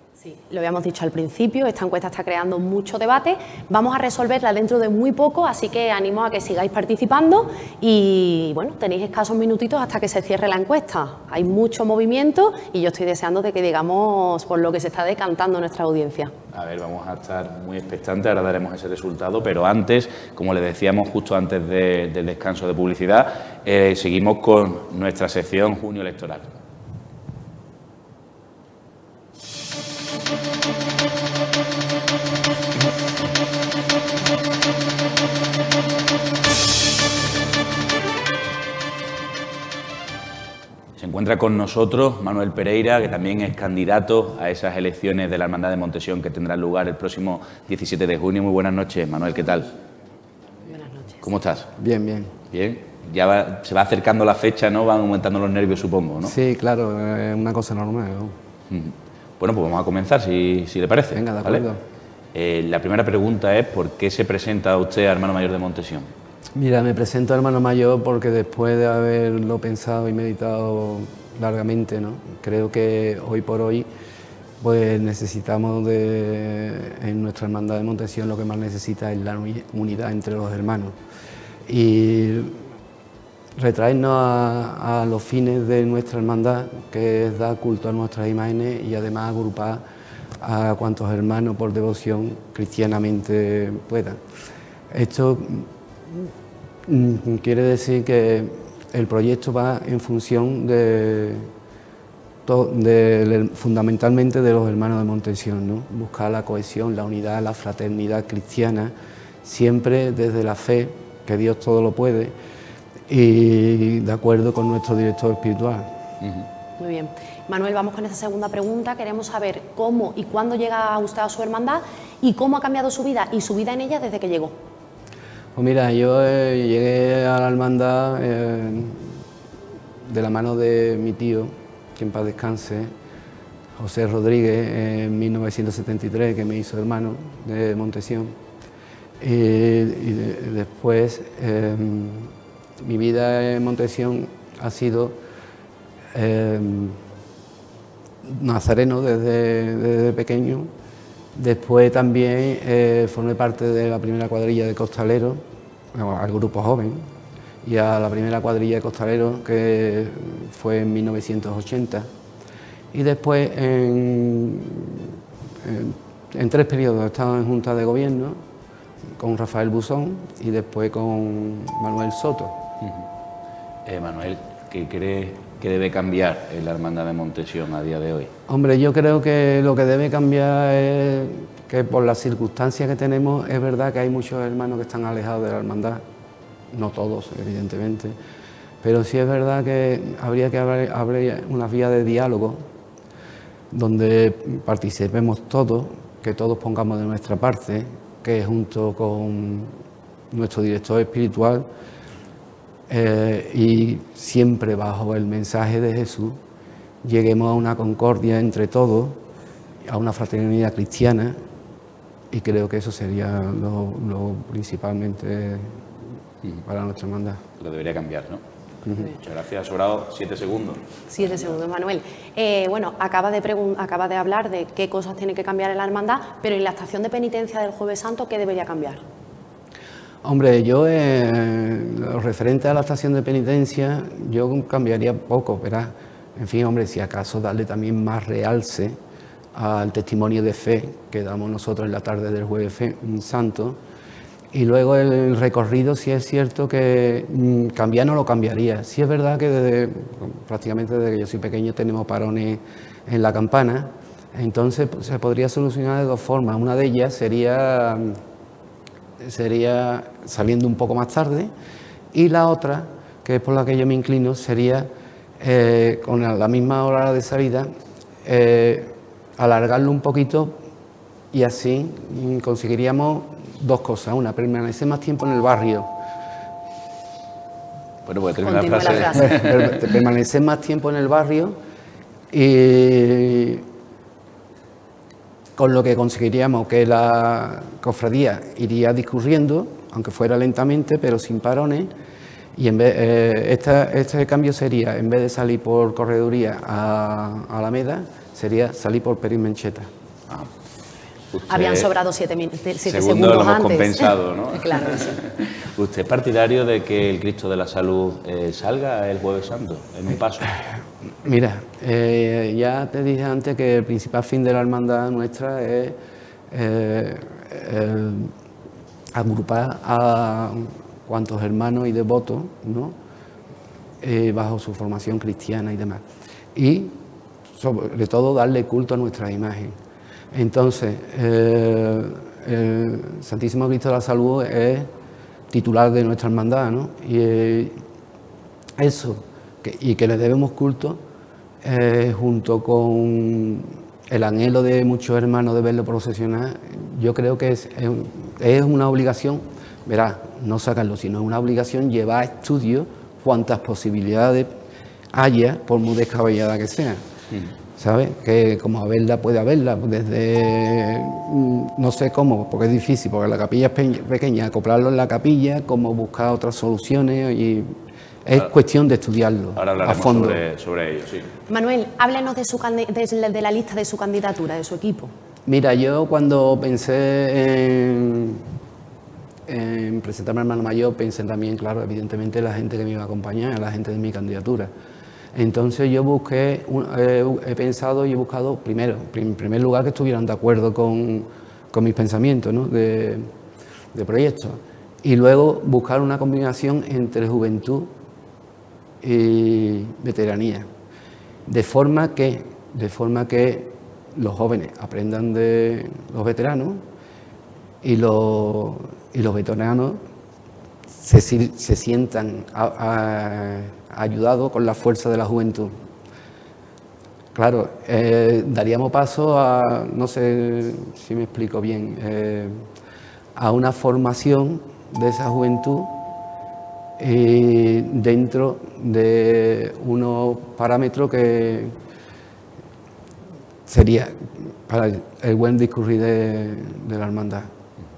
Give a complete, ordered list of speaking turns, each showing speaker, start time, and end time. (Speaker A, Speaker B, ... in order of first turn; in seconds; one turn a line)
Speaker A: 0.2-16.3
Speaker B: 16.5-26.6
Speaker B: 41.0-49.7
Speaker A: 50.7-51.3
Speaker B: 51.2-51.7
Speaker C: 51.8-52.4
Speaker B: 52.5-56.4
Speaker C: 56.2-58.3
Speaker B: 58.7-61.7
Speaker C: 61.1-61.8
Speaker B: 62.3-66.1
Speaker C: 66.5-73.9
Speaker C: 74.6-80.9
Speaker C: 81.7-82.6
Speaker C: 83.6-89.8
Speaker C: 90.4-94.2
Speaker C: 94.9-96.3
Speaker C: 96.9-101.5
Speaker C: 102.5-108.9
Speaker C: 109.4-112.3
Speaker C: 113.1-115.9
Speaker A: 116.8-124.5
Speaker C: 125.5-129.2
Speaker C: 130.1-132.9
Speaker C: 133.8-138.3
Speaker C: 139.2-145.2
Speaker C: 146.1-147.0
Speaker C: 148.2-150.7
Speaker C: 151.3-155.4
Speaker C: 155.9-157.0
Speaker C: 157.6-162.1
Speaker C: 162.9-168.4
Speaker C: 169.2-172.6
Speaker B: 173.9-178.3
Speaker C: 178.5-186.0
Speaker C: 186.7-188.2
Speaker C: 188.8-192.6
Speaker C: 193.7-199.7
Speaker C: 200.3-201.7
Speaker C: 202.9-206.4
Speaker C: 207.0-209.2
Speaker C: 209.9-211.4
Speaker C: 212.3-215.8
Speaker C: 216.6-217.4
Speaker B: 217.6-218.4
Speaker B: 219.2-221.5
Speaker A: 221.1-229.0
Speaker C: 230.2-239.0
Speaker C: 239.5-243.8
Speaker C: 244.5-258.2
Speaker C: 259.2-261.5
Speaker C: 262.1-264.9
Speaker C: 265.4-267.7
Speaker C: 268.2-270.6
Speaker C: 271.3-275.9
Speaker B: 278.1-279.8
Speaker A: 278.4-279.3
Speaker C: 279.2-281.6
Speaker C: 282.3-283.6
Speaker C: 285.6-291.9
Speaker C: 292.6-299.9
Speaker B: 301.3-301.9
Speaker A: 301.5-305.2
Speaker B: 302.9-310.5
Speaker C: 311.2-316.0
Speaker C: 316.5-318.3
Speaker C: 319.1-322.9
Speaker C: 324.0-326.0
Speaker C: 326.6-327.0
Speaker C: 327.5-329.8
Speaker C: 330.3-334.9
Speaker C: 335.5-337.7
Speaker C: 338.8-341.0
Speaker C: 341.6-354.5
Speaker C: 355.1-357.0
Speaker C: 357.8-370.4
Speaker B: 369.6-371.3
Speaker A: 371.5-375.1
Speaker C: 375.5-378.4
Speaker C: 379.5-384.7
Speaker C: 385.3-393.3
Speaker C: 393.9-397.9
Speaker C: 399.0-400.7
Speaker C: 401.5-406.8
Speaker C: 407.8-410.0
Speaker C: 410.9-415.7
Speaker C: 417.4-422.7
Speaker C: 423.4-425.9
Speaker C: 427.0-431.7
Speaker C: 433.7-437.5